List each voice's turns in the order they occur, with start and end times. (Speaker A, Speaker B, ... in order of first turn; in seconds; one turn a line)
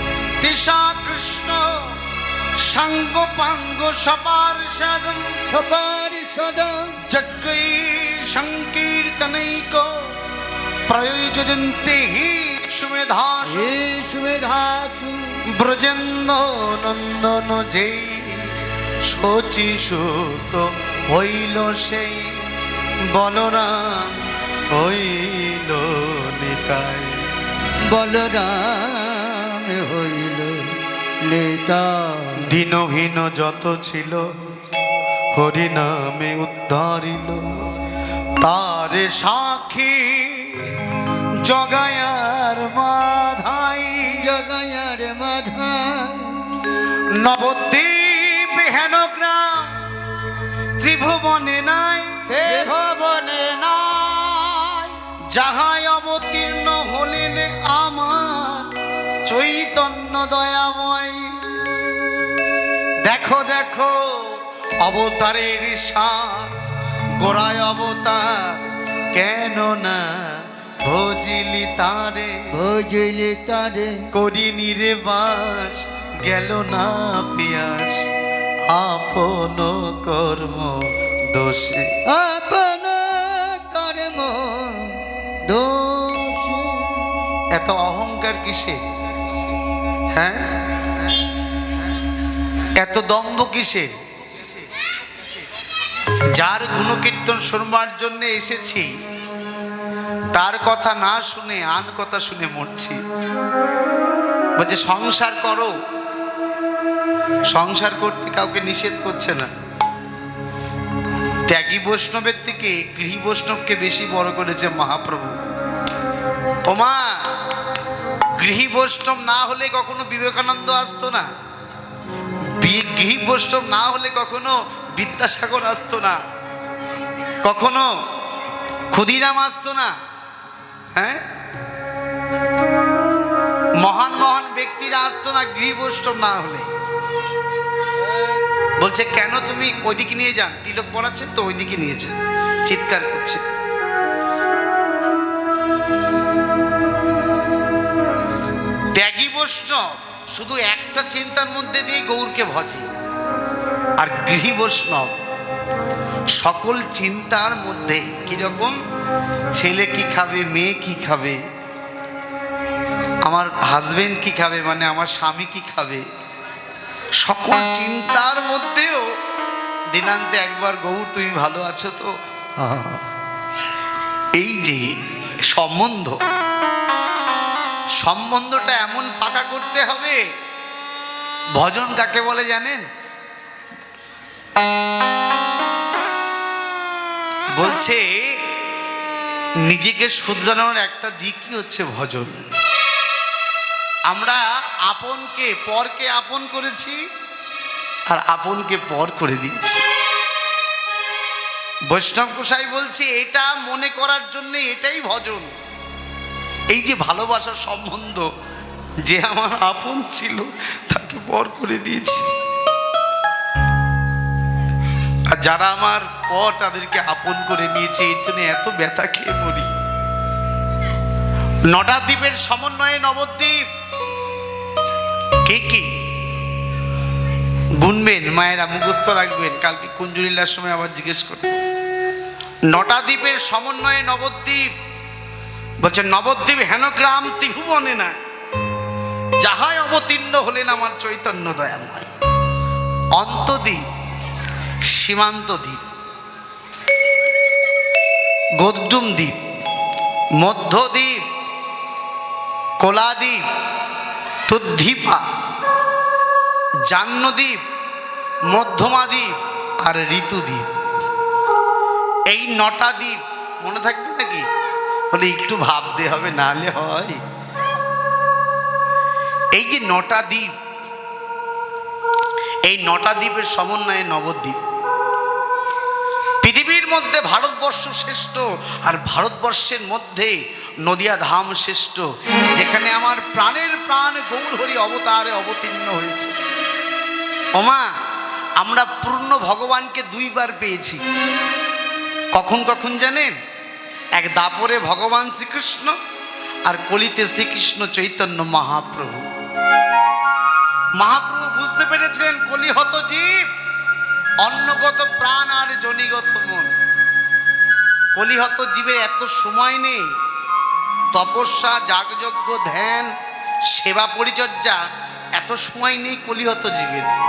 Speaker A: 0.4-1.7
Speaker A: 2.6-5.2
Speaker B: 5.5-7.0
Speaker A: 7.1-9.9
Speaker A: 10.9-13.7
Speaker B: 13.4-15.4
Speaker A: 15.5-18.5
Speaker A: 19.1-22.3
Speaker A: 23.1-24.2
Speaker A: 24.7-27.2
Speaker B: 27.9-32.4
Speaker A: 32.4-34.3
Speaker A: 35.3-37.7
Speaker A: 38.4-40.7
Speaker A: 41.4-44.3
Speaker B: 44.2-46.5
Speaker A: 47.2-49.8
Speaker A: 50.8-52.3
Speaker C: 52.3-55.0
Speaker B: 52.4-52.7
Speaker A: 55.3-58.7
Speaker A: 59.2-61.3
Speaker A: 63.0-66.5
Speaker A: 67.2-68.6
Speaker A: 69.1-70.1
Speaker A: 70.8-72.3
Speaker B: 72.5-73.9
Speaker A: 74.1-78.0
Speaker A: 78.7-80.8
Speaker A: 81.3-81.9
Speaker B: 82.1-87.0
Speaker A: 87.5-88.8
Speaker A: 90.1-90.5
Speaker A: 92.8-93.9
Speaker A: 96.3-98.9
Speaker A: 100.3-103.0
Speaker A: 104.6-105.7
Speaker A: 107.5-109.5
Speaker A: 111.5-115.3
Speaker A: 116.7-117.2
Speaker A: 118.4-121.3
Speaker A: 122.6-126.2
Speaker A: 127.4-127.9
Speaker A: 128.9-129.9
Speaker A: 130.9-131.2
Speaker A: 133.8-136.7
Speaker A: 138.8-143.4
Speaker A: 148.9-152.9
Speaker A: 154.0-155.1
Speaker A: 156.4-158.7
Speaker A: 159.5-161.4
Speaker A: 163.2-166.0
Speaker A: 167.2-169.1
Speaker A: 169.9-172.1
Speaker B: 172.6-173.0
Speaker A: 174.4-174.8
Speaker A: 175.5-176.2
Speaker A: 178.0-180.2
Speaker A: 181.5-182.8
Speaker A: 187.5-188.4
Speaker A: 189.6-192.4
Speaker A: 194.1-197.0
Speaker A: 198.1-199.8
Speaker A: 201.9-205.5
Speaker A: 206.7-208.3
Speaker A: 209.0-212.3
Speaker A: 215.3-219.7
Speaker A: 221.7-223.6
Speaker A: 225.4-225.9
Speaker A: 227.8-231.6
Speaker A: 232.7-234.7
Speaker A: 235.8-238.2
Speaker A: 239.4-242.1
Speaker A: 243.1-243.8
Speaker A: 244.9-245.8
Speaker A: 248.6-249.3
Speaker A: 250.4-251.2
Speaker A: 252.8-253.4
Speaker A: 254.5-255.2
Speaker A: 256.9-257.6
Speaker A: 258.5-260.6
Speaker A: 262.3-264.4
Speaker A: 265.1-267.2
Speaker A: 269.5-270.5
Speaker A: 272.6-274.6
Speaker A: 276.4-286.3
Speaker A: 287.6-287.9
Speaker A: 288.6-291.0
Speaker A: 292.3-293.3
Speaker A: 294.1-296.0
Speaker A: 296.6-299.2
Speaker A: 301.0-303.5
Speaker A: 304.4-306.7
Speaker A: 308.1-310.1
Speaker A: 311.1-313.1
Speaker A: 313.7-314.8
Speaker A: 315.4-317.1